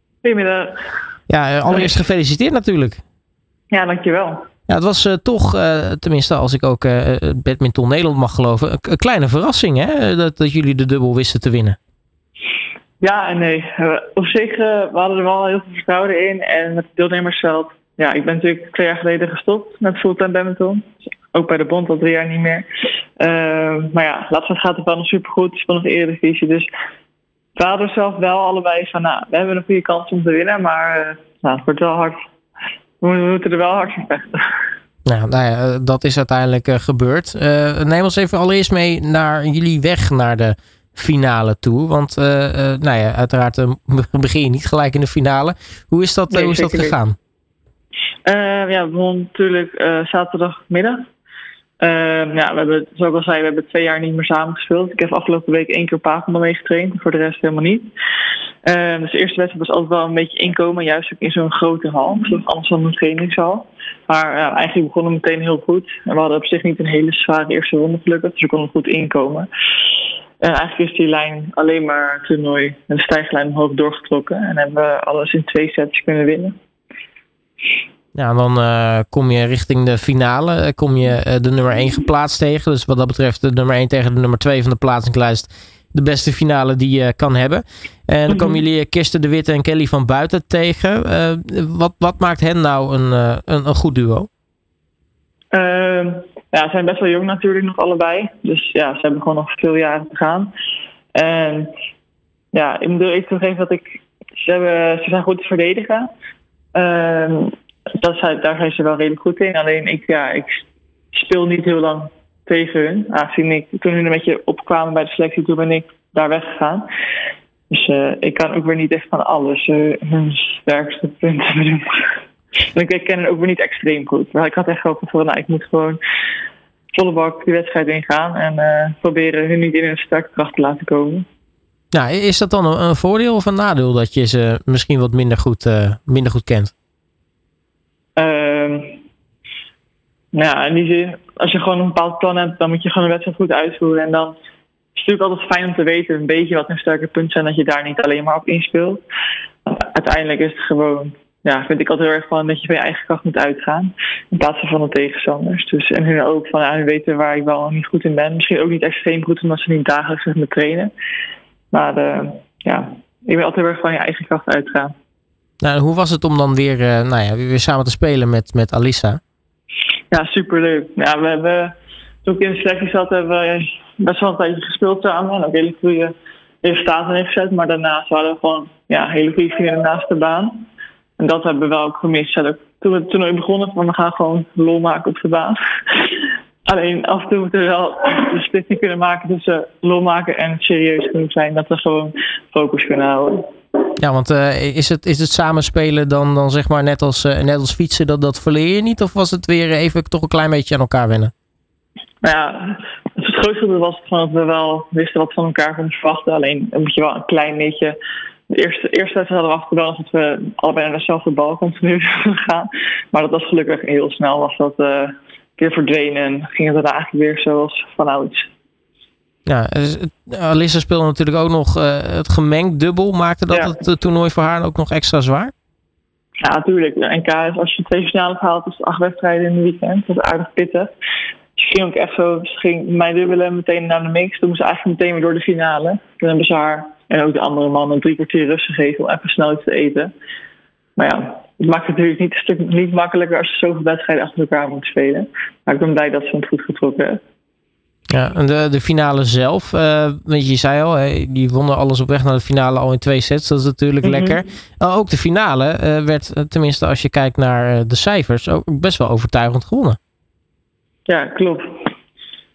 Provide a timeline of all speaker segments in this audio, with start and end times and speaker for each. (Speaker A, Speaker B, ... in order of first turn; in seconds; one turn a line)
Speaker A: 0.2-0.8
Speaker B: 1.3-3.0
Speaker A: 3.7-4.5
Speaker B: 4.7-11.8
Speaker A: 13.0-22.7
Speaker A: 23.2-26.7
Speaker A: 27.6-32.2
Speaker A: 33.0-34.6
Speaker B: 35.1-47.2
Speaker A: 46.3-47.0
Speaker A: 48.3-51.1
Speaker A: 51.8-57.9
Speaker A: 58.6-69.5
Speaker A: 70.4-76.5
Speaker B: 78.2-94.3
Speaker A: 88.3-88.6
Speaker A: 95.5-100.5
Speaker A: 101.1-101.7
Speaker A: 102.5-106.1
Speaker A: 106.7-116.8
Speaker A: 117.7-126.0
Speaker A: 126.9-131.2
Speaker B: 131.9-136.7
Speaker A: 138.2-139.0
Speaker A: 140.3-144.4
Speaker A: 144.9-149.0
Speaker A: 149.7-160.9
Speaker A: 161.7-164.9
Speaker B: 165.6-169.2
Speaker A: 170.1-171.7
Speaker A: 172.2-180.7
Speaker A: 181.2-193.5
Speaker B: 194.0-201.3
Speaker A: 202.2-208.0
Speaker A: 208.5-218.5
Speaker B: 219.5-225.5
Speaker A: 223.5-223.8
Speaker A: 226.4-230.9
Speaker A: 231.6-240.1
Speaker A: 241.0-247.2
Speaker B: 248.1-260.0
Speaker A: 254.0-254.4
Speaker A: 261.1-261.9